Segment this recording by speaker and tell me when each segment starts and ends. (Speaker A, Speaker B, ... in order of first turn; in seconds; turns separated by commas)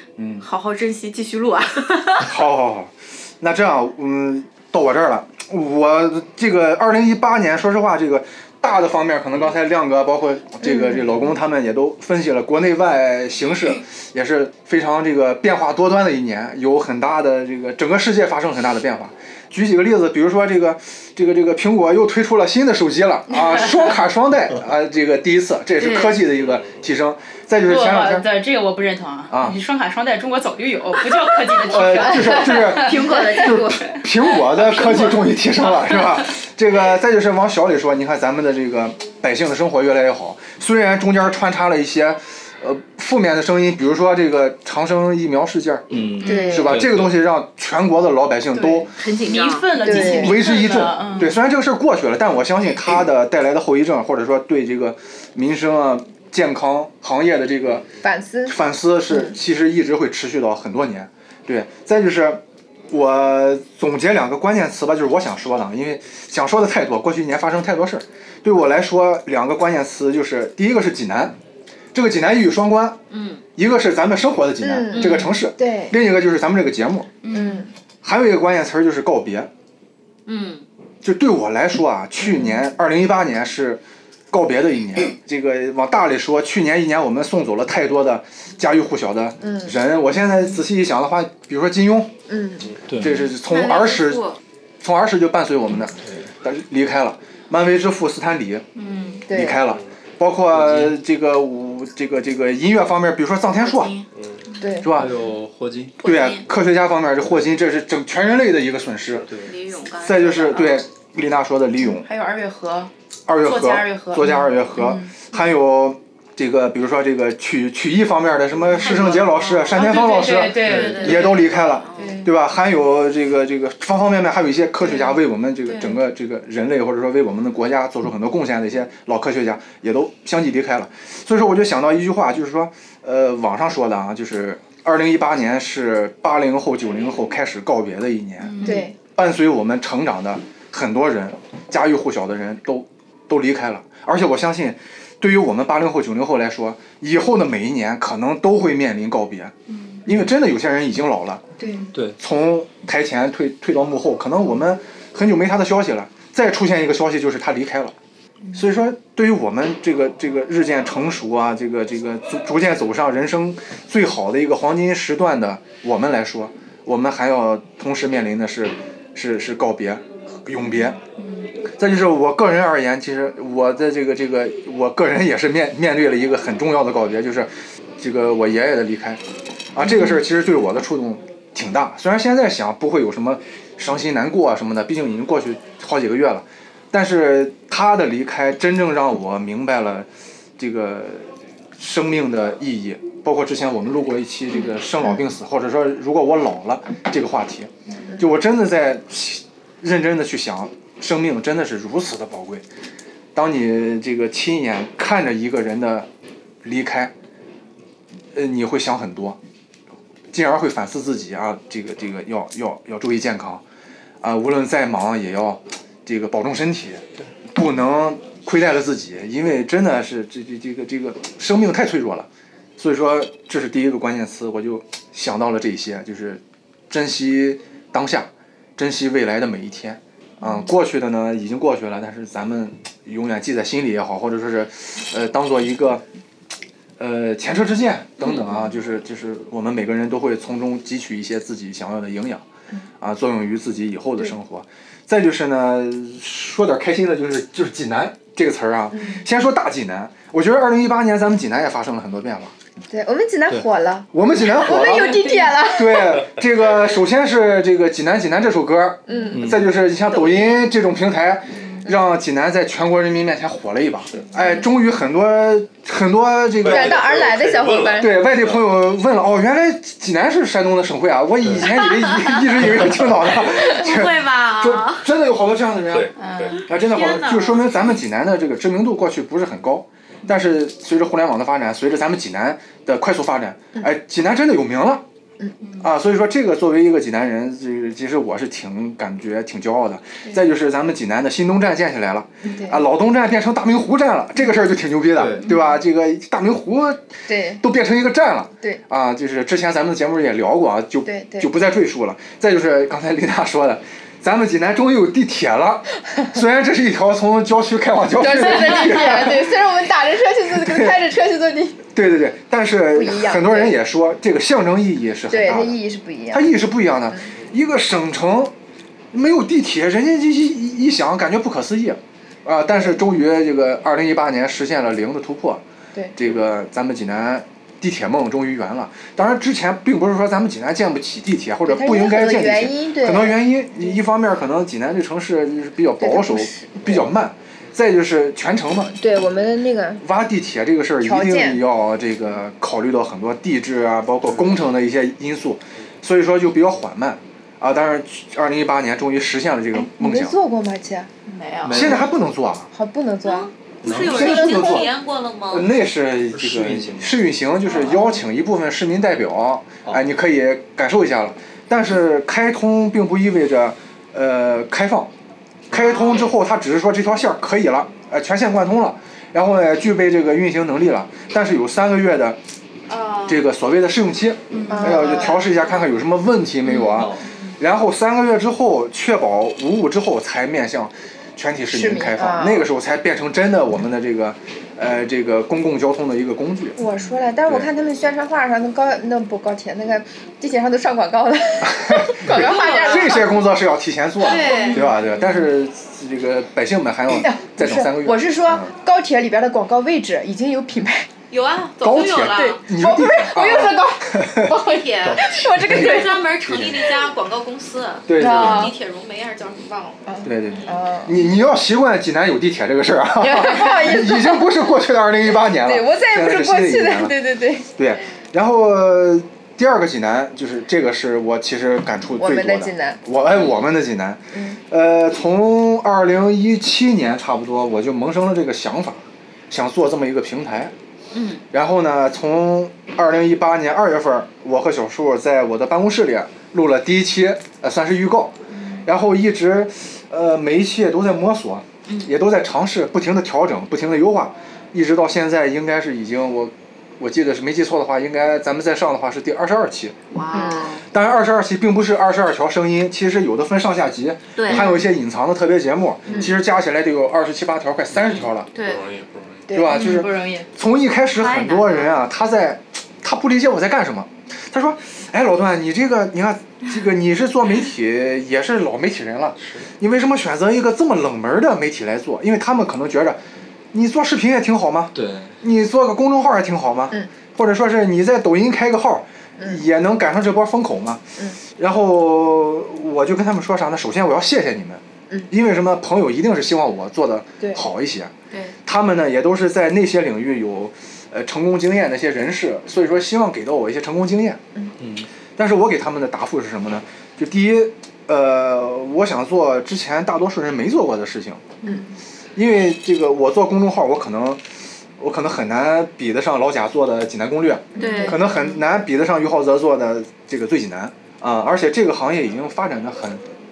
Speaker A: 0.2-0.4, Speaker B: 0.4-2.4, Speaker A: 2.2-28.2, Speaker C: 10.6-11.0, Speaker D: 27.6-34.0, Speaker A: 29.3-29.6, Speaker A: 31.6-45.9, Speaker B: 31.8-34.0, Speaker D: 34.7-35.1, Speaker E: 45.9-47.2, Speaker C: 46.2-46.8, Speaker A: 46.5-48.9, Speaker D: 48.5-51.3, Speaker B: 48.9-49.9, Speaker C: 49.8-50.4, Speaker A: 49.9-57.9, Speaker C: 58.0-58.6, Speaker A: 58.5-71.3, Speaker A: 71.9-73.0, Speaker B: 73.1-73.4, Speaker A: 73.5-77.1, Speaker C: 74.6-75.9, Speaker D: 77.2-77.6, Speaker C: 77.3-77.7, Speaker A: 78.0-79.5, Speaker B: 80.3-80.7, Speaker A: 81.0-92.1, Speaker C: 89.4-89.7, Speaker C: 92.3-92.8, Speaker E: 92.9-93.2, Speaker A: 93.0-94.3, Speaker B: 93.3-94.4, Speaker A: 94.8-98.7, Speaker B: 98.8-99.2, Speaker C: 99.2-99.6, Speaker A: 99.3-103.9, Speaker E: 100.5-101.0, Speaker B: 103.6-104.0, Speaker C: 104.6-104.9, Speaker A: 104.8-105.1, Speaker E: 104.9-105.9, Speaker B: 106.0-106.4, Speaker A: 106.0-109.3, Speaker B: 109.4-110.8, Speaker A: 110.0-112.1, Speaker D: 112.0-112.9, Speaker A: 113.3-149.5, Speaker D: 113.4-115.2, Speaker B: 118.8-122.2, Speaker D: 118.8-122.3, Speaker E: 120.6-120.9, Speaker D: 138.4-138.9, Speaker C: 138.6-138.9, Speaker A: 150.1-151.4, Speaker C: 151.6-151.9, Speaker A: 152.2-157.9, Speaker A: 158.5-171.0, Speaker D: 171.2-171.5, Speaker A: 171.8-179.2, Speaker A: 179.7-202.6, Speaker A: 203.3-206.1, Speaker A: 206.6-207.1, Speaker A: 208.3-209.4, Speaker A: 210.3-213.6, Speaker A: 214.2-236.0, Speaker A: 237.0-242.4, Speaker A: 243.0-252.5, Speaker C: 248.9-249.2, Speaker C: 252.9-256.3, Speaker A: 254.1-267.1, Speaker D: 255.0-255.4, Speaker C: 259.1-259.4, Speaker E: 259.3-259.7, Speaker F: 266.6-268.6, Speaker C: 266.6-268.1, Speaker A: 268.0-276.1, Speaker B: 271.9-272.4, Speaker B: 273.5-275.1, Speaker F: 275.9-276.6, Speaker D: 276.2-277.3, Speaker B: 276.6-277.5, Speaker A: 276.7-285.0, Speaker A: 285.8-309.6, Speaker C: 292.4-292.8, Speaker E: 295.1-295.4, Speaker D: 295.5-295.7, Speaker C: 297.3-297.6, Speaker C: 301.1-301.5, Speaker C: 308.2-311.8, Speaker A: 310.5-311.0, Speaker A: 311.9-315.8, Speaker C: 312.9-313.8, Speaker C: 315.3-316.5, Speaker A: 316.3-318.5, Speaker A: 319.1-325.6, Speaker C: 322.7-323.0, Speaker A: 326.1-339.0, Speaker C: 331.6-334.0, Speaker C: 336.0-337.1, Speaker C: 339.0-340.0, Speaker A: 340.0-350.4, Speaker C: 341.0-341.6, Speaker C: 349.8-351.1, Speaker B: 351.3-351.9, Speaker E: 351.6-352.0, Speaker A: 351.7-352.7, Speaker C: 352.7-353.5, Speaker B: 353.2-355.7, Speaker E: 353.8-354.2, Speaker A: 354.0-354.9, Speaker C: 354.0-354.9, Speaker A: 355.5-365.1, Speaker E: 356.3-357.2, Speaker A: 365.7-372.4, Speaker B: 365.7-366.3, Speaker B: 372.9-373.4, Speaker A: 373.2-386.8, Speaker B: 374.7-375.9, Speaker C: 374.7-375.4, Speaker B: 376.7-377.5, Speaker C: 381.7-382.7, Speaker C: 386.8-393.4, Speaker A: 391.6-398.7, Speaker B: 392.3-393.3, Speaker B: 394.2-395.1, Speaker C: 394.4-394.9, Speaker C: 397.1-401.1, Speaker B: 401.3-402.6, Speaker A: 401.8-404.5, Speaker C: 402.4-406.3, Speaker B: 404.6-410.0, Speaker A: 408.1-408.7, Speaker C: 408.1-408.7, Speaker C: 410.1-411.2, Speaker A: 410.2-430.7, Speaker C: 413.2-414.6, Speaker C: 415.5-417.7, Speaker C: 422.2-423.0, Speaker C: 424.3-424.6, Speaker B: 431.1-431.4, Speaker A: 431.5-450.0, Speaker B: 438.5-438.8, Speaker B: 441.9-442.1, Speaker B: 450.1-450.8, Speaker C: 450.3-450.8, Speaker A: 450.9-458.5, Speaker B: 454.4-454.8, Speaker B: 458.5-458.8, Speaker F: 458.5-459.5, Speaker C: 459.5-459.9, Speaker A: 459.5-473.2, Speaker B: 459.7-460.1, Speaker D: 459.7-460.5, Speaker B: 461.1-462.0, Speaker A: 473.7-488.1, Speaker E: 474.9-475.3, Speaker A: 488.6-494.4, Speaker E: 494.8-495.1, Speaker A: 495.4-501.4, Speaker A: 502.4-504.4, Speaker A: 505.0-513.2, Speaker B: 507.8-508.6, Speaker C: 507.8-508.2